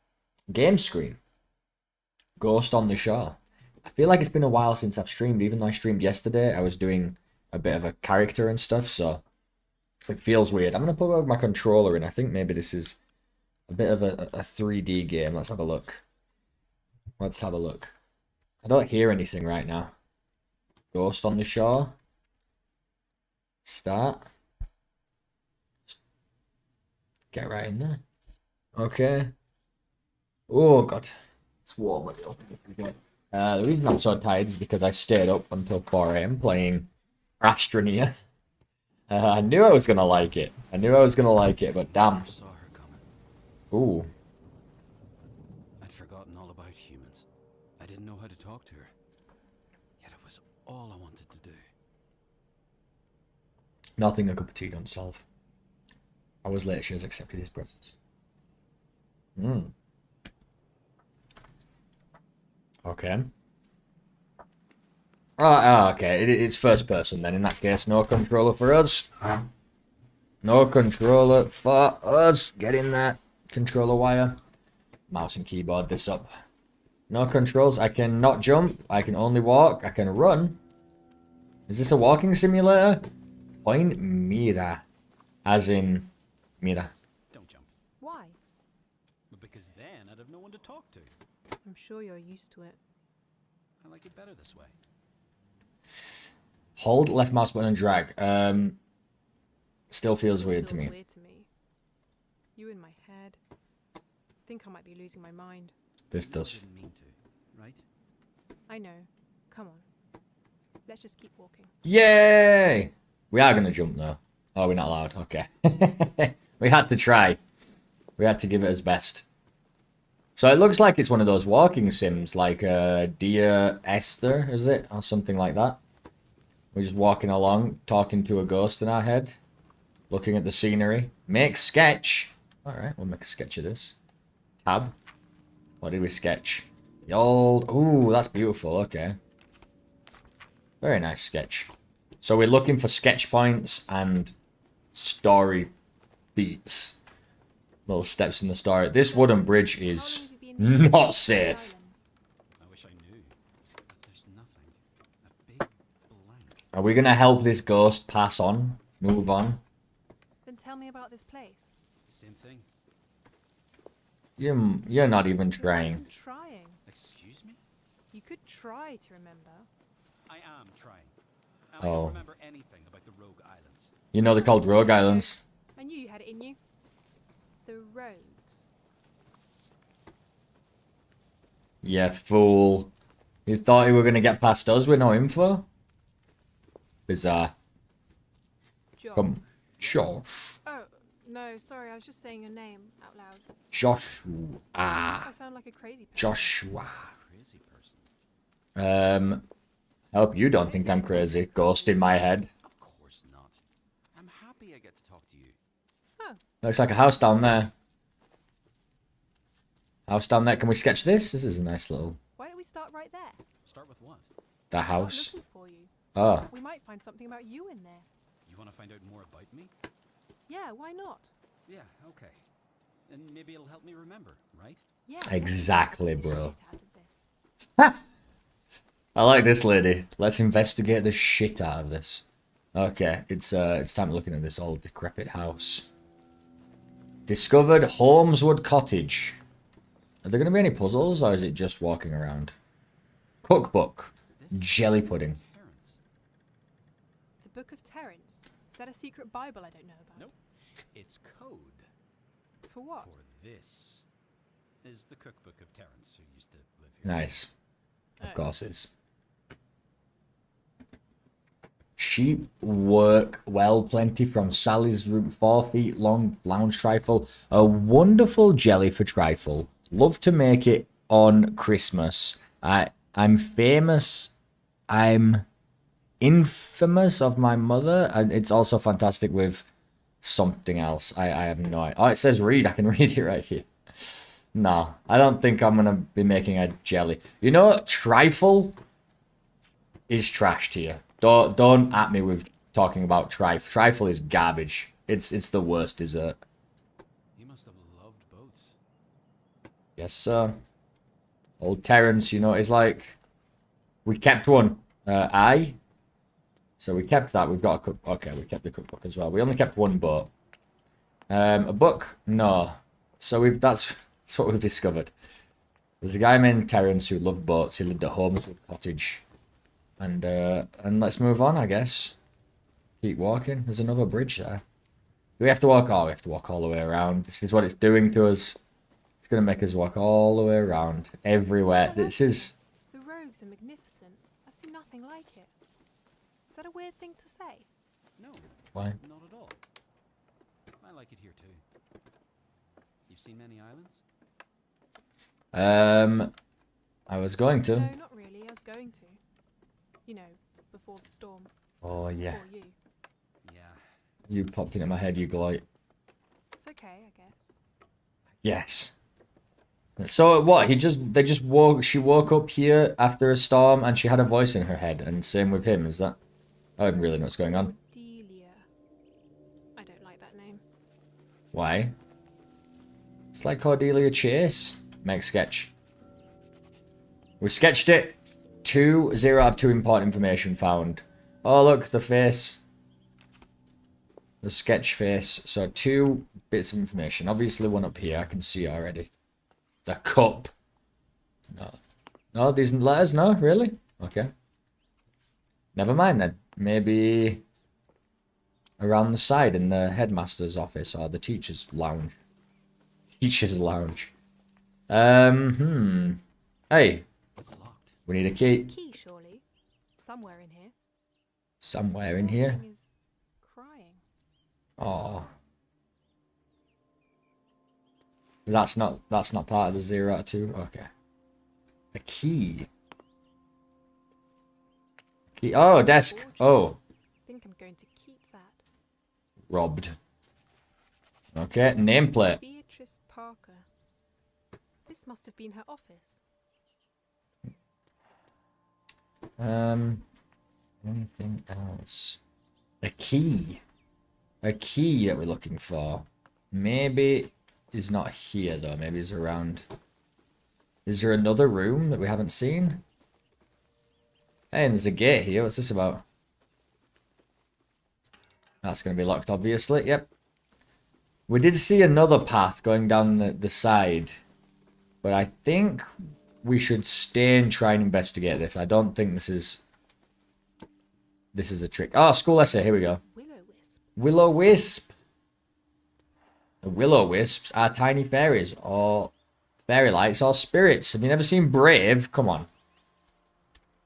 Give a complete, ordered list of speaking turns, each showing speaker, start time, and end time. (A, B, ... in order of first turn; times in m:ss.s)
0:00.5-0:01.2 A
0:02.4-0:09.2 A
0:10.0-0:13.0 A
0:13.7-0:16.0 A
0:17.2-0:17.9 A
0:18.6-0:19.9 A
0:20.9-0:21.9 A
0:23.6-0:24.3 A
0:27.3-0:28.0 A
0:28.8-0:29.3 A
0:30.5-0:31.1 A
0:31.6-0:36.9 A
0:37.4-0:38.2 A
0:39.1-0:42.3 A
0:41.6-0:43.0 B
0:43.7-0:44.1 A
0:45.8-0:47.2 B
0:47.8-0:48.9 B
0:50.0-0:51.6 B
0:54.0-0:55.2 A
0:56.4-0:57.9 A
0:59.4-0:59.7 A
1:02.8-1:03.3 A
1:05.4-1:09.1 A
1:10.4-1:14.4 A
1:15.1-1:16.3 A
1:17.1-1:20.6 A
1:21.7-1:23.1 A
1:23.6-1:24.8 A
1:25.4-1:26.9 A
1:26.9-1:27.7 B
1:28.0-1:28.4 C
1:29.3-1:31.1 B
1:31.6-1:32.8 C
1:33.8-1:34.8 B
1:36.8-1:38.8 A
1:39.9-1:40.9 A
1:40.2-1:41.5 C
1:42.5-1:43.4 C
1:44.4-1:45.7 C
1:46.1-1:46.6 A
1:46.1-1:47.8 B
1:48.7-1:49.8 C
1:50.8-1:51.7 C
1:51.8-1:57.4 A
1:58.2-1:59.2 A
2:00.4-2:05.8 A
2:06.7-2:09.4 A
2:10.1-2:14.0 A
2:14.6-2:14.9 A
2:15.8-2:19.2 A
2:20.8-2:21.7 A
2:22.2-2:24.3 A
2:24.9-2:25.7 A
2:26.4-2:27.0 A
2:27.9-2:31.7 A
2:29.1-2:32.1 C
2:32.6-2:33.4 B
2:33.9-2:36.6 B
2:36.7-2:39.6 A
2:40.4-2:41.8 C
2:42.1-2:42.7 B
2:44.4-2:46.0 A
2:45.5-2:46.8 C
2:46.8-2:47.6 B
2:48.1-2:49.7 C
2:50.2-2:51.2 B
2:51.7-2:53.9 B
2:51.8-2:52.2 A
2:54.1-2:55.4 A
2:54.2-2:56.6 C
2:57.6-2:58.7 C
3:01.8-3:02.9 A
3:03.4-3:05.6 A
3:07.1-3:07.5 A
3:09.0-3:09.3 C
3:09.1-3:10.6 A
3:09.8-3:10.1 B
3:10.6-3:13.4 C
3:13.7-3:15.3 A
3:14.8-3:16.6 C
3:16.2-3:17.1 A
3:17.1-3:18.1 B
3:18.8-3:19.4 A
3:20.1-3:22.5 A
3:20.6-3:22.1 C
3:22.6-3:23.6 B
3:24.1-3:25.6 B
3:26.6-3:27.7 A
3:30.1-3:32.2 A
3:32.4-3:33.4 C
3:33.6-3:34.3 B
3:34.7-3:35.3 A
3:34.8-3:35.9 C
3:36.1-3:36.5 A
3:36.5-3:38.1 C
3:38.4-3:39.7 B
3:40.5-3:41.3 C
3:41.6-3:42.4 B
3:43.1-3:44.8 B
3:45.0-3:47.3 C
3:45.2-3:46.5 A
3:49.1-3:55.9 A
3:57.3-3:59.4 A
4:00.2-4:02.6 A
4:03.4-4:05.4 A
4:04.4-4:06.0 B
4:07.4-4:10.3 C
4:10.9-4:11.9 B
4:12.6-4:13.1 C
4:12.9-4:14.0 B
4:14.8-4:17.4 B
4:17.0-4:17.5 A
4:18.2-4:18.4 C
4:18.2-4:18.9 A
4:22.0-4:34.3 A
4:34.9-4:35.4 A
4:36.2-4:39.7 A
4:40.2-4:48.8 A
4:50.1-4:56.4 A
4:57.4-4:58.8 B
5:00.0-5:00.6 A
5:01.6-5:03.2 A
5:04.0-5:05.8 A
5:06.8-5:10.3 A
5:11.3-5:15.1 A
5:16.0-5:19.2 A
5:20.0-5:22.2 A
5:23.0-5:24.6 A
5:25.4-5:28.6 A
5:29.2-5:32.5 A
5:31.7-5:35.5 C
5:36.5-5:37.7 C
5:38.2-5:39.6 B
5:40.8-5:41.6 B
5:43.1-5:44.0 B
5:45.5-5:46.3 A
5:47.1-5:47.9 A
5:47.6-5:49.2 C
5:50.0-5:51.5 C
5:51.8-5:52.4 A
5:52.2-5:52.7 C
5:53.4-5:53.8 B
5:54.3-5:55.6 A
5:54.5-5:55.3 B
5:56.6-5:57.5 C
5:58.4-5:58.9 A
6:00.0-6:06.2 A
6:06.8-6:07.7 A
6:07.5-6:08.6 C
6:09.8-6:10.6 C
6:11.5-6:11.9 A
6:13.3-6:15.7 A
6:17.4-6:22.6 A
6:24.4-6:29.1 A
6:29.8-6:30.5 A
6:31.5-6:31.8 A
6:32.3-6:34.3 A
6:35.7-6:37.4 A
6:38.8-6:42.2 A
6:43.1-6:44.1 A
6:44.9-6:47.0 A
6:47.4-6:48.0 B
6:48.1-6:48.7 A
6:48.7-6:49.4 C
6:50.0-6:50.7 C
6:51.6-6:52.6 A
6:52.0-6:52.9 C
6:53.4-6:54.0 C
6:54.8-6:55.3 A
6:58.4-7:00.9 A
7:01.9-7:02.7 A
7:05.3-7:06.8 A
7:05.5-7:08.6 C
7:09.5-7:10.0 A
7:11.3-7:12.4 A
7:12.2-7:13.6 C
7:14.8-7:16.2 C
7:19.4-7:20.0 A
7:20.8-7:22.2 A
7:22.8-7:23.6 A
7:24.4-7:29.7 A
7:30.8-7:32.8 A
7:34.5-7:36.0 A
7:38.6-7:40.1 A
7:41.3-7:44.2 A
7:45.0-7:45.9 A
7:46.4-7:49.6 A
7:51.3-7:53.0 A
7:52.2-7:53.9 C
7:54.0-7:54.9 A
7:56.6-7:59.1 A
7:59.6-8:02.5 A